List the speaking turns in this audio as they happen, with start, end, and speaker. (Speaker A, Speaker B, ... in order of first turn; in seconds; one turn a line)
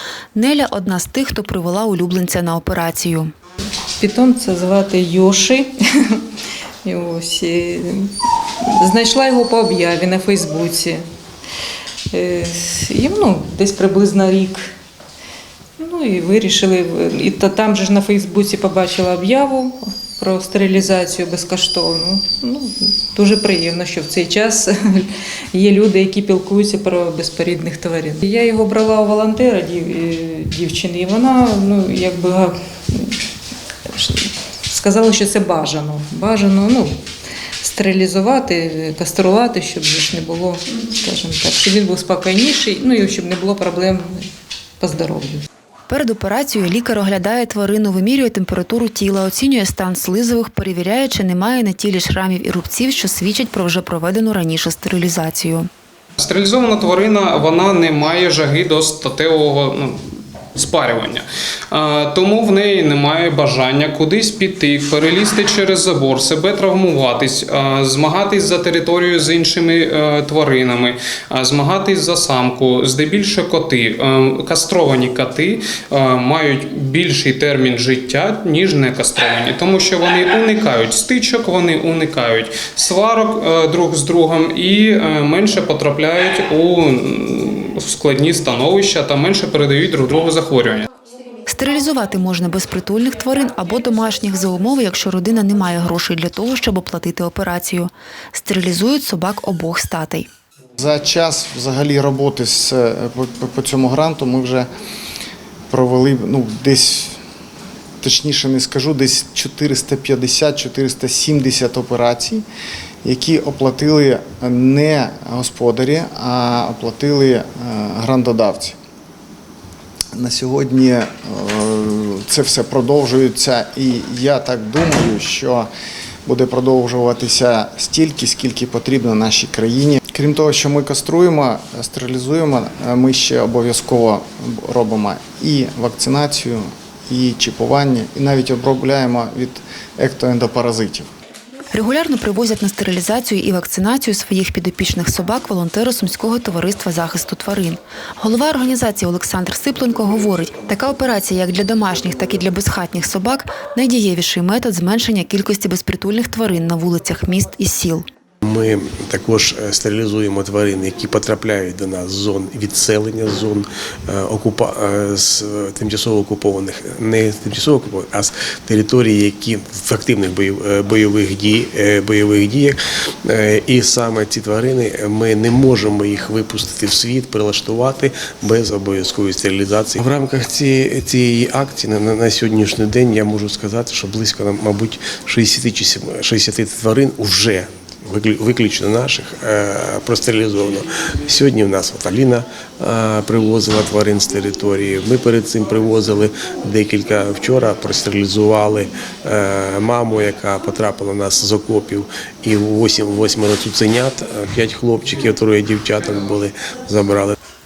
Speaker A: 0.3-3.3
Speaker B: 4.0-6.2
Speaker B: 6.8-11.0
Speaker B: 12.1-14.7
Speaker B: 15.8-33.2
Speaker B: 33.8-37.0
Speaker B: 37.6-44.2
Speaker B: 44.8-45.4
Speaker A: 45.9-55.7
Speaker C: 56.2-60.0
Speaker C: 60.5-90.9
Speaker A: 91.5-100.3
Speaker D: 100.8-104.7
Speaker D: 105.7-107.2
Speaker D: 108.0-112.4
Speaker D: 113.0-118.8
Speaker D: 120.1-125.7
Speaker D: 126.2-141.1
Speaker A: 141.7-158.1
Speaker E: 158.4-207.3